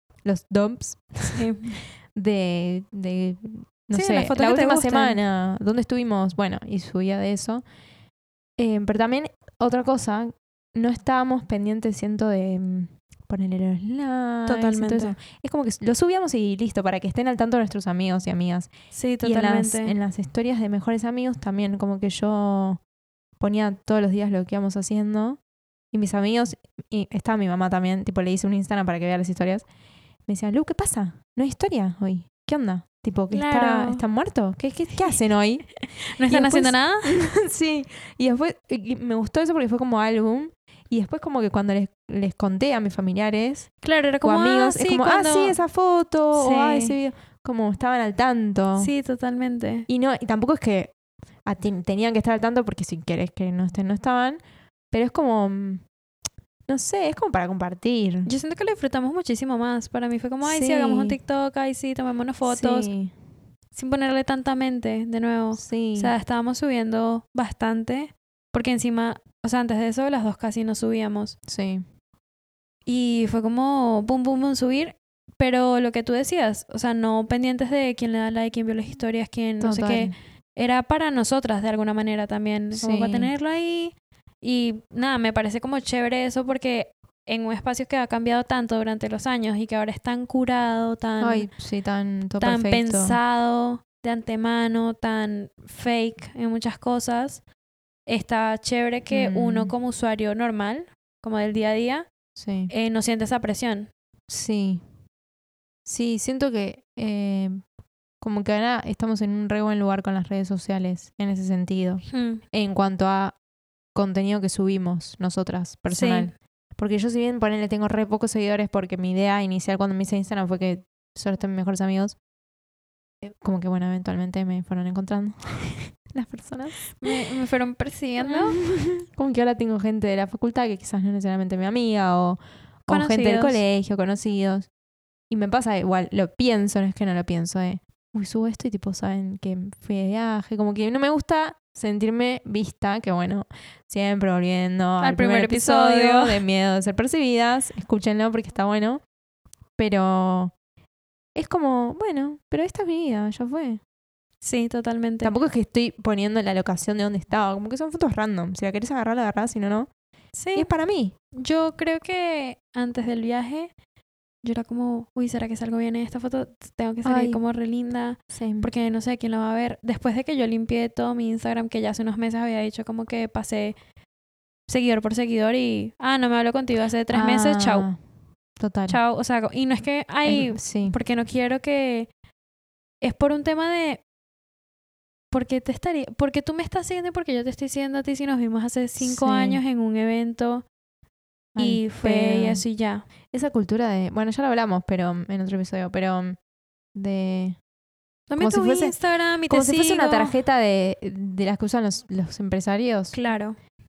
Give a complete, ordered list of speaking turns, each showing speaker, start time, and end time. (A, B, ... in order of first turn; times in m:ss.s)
0:00.2-0:01.4 A
0:01.3-0:01.7 B
0:02.2-0:07.6 A
0:03.9-0:05.2 B
0:08.6-0:18.7 A
0:14.5-0:15.2 B
0:18.9-0:20.0 B
0:19.2-0:22.8 A
0:23.4-0:25.4 A
0:25.9-0:29.6 A
0:30.3-0:35.7 A
0:33.3-0:34.0 B
0:36.1-0:37.1 B
0:36.2-0:43.7 A
0:43.8-0:45.6 B
0:44.2-0:48.9 A
0:46.3-0:47.0 B
0:48.8-0:49.9 B
0:49.9-0:50.9 A
0:51.4-0:55.8 A
0:56.7-0:58.3 A
0:58.3-1:02.9 B
1:00.4-1:01.2 A
1:02.5-1:03.1 A
1:03.8-1:11.4 B
1:05.6-1:06.2 A
1:11.5-1:11.8 A
1:12.9-1:31.5 B
1:19.6-1:20.1 A
1:22.8-1:23.3 A
1:31.2-1:33.2 A
1:32.4-1:37.4 B
1:38.1-1:42.1 B
1:39.1-1:39.7 A
1:42.4-1:42.7 A
1:42.7-1:43.9 B
1:44.3-1:44.8 A
1:45.9-1:47.6 A
1:48.2-1:53.4 A
1:52.1-1:52.4 B
1:54.0-2:02.2 A
1:55.9-1:56.3 B
2:03.2-2:07.1 A
2:07.0-2:08.6 B
2:08.2-2:14.7 A
2:12.9-2:13.6 B
2:15.3-2:29.0 A
2:25.0-2:26.4 B
2:29.8-2:30.5 A
2:31.4-2:33.8 A
2:34.4-2:35.3 B
2:35.2-2:39.9 A
2:40.4-2:40.7 B
2:40.6-2:41.2 A
2:41.3-2:43.7 B
2:44.4-2:53.8 B
2:47.0-2:47.4 A
2:48.3-2:48.7 A
2:54.7-2:57.9 B
2:57.1-2:58.0 A
2:58.6-2:59.0 A
2:58.9-3:02.1 B
3:00.2-3:01.0 A
3:03.0-3:04.0 B
3:05.3-3:10.6 B
3:09.0-3:09.6 A
3:11.6-3:12.6 A
3:11.6-3:13.0 B
3:13.3-3:16.4 A
3:17.0-3:17.6 A
3:18.3-3:20.4 B
3:18.4-3:19.0 A
3:19.5-3:23.2 A
3:23.1-3:23.6 B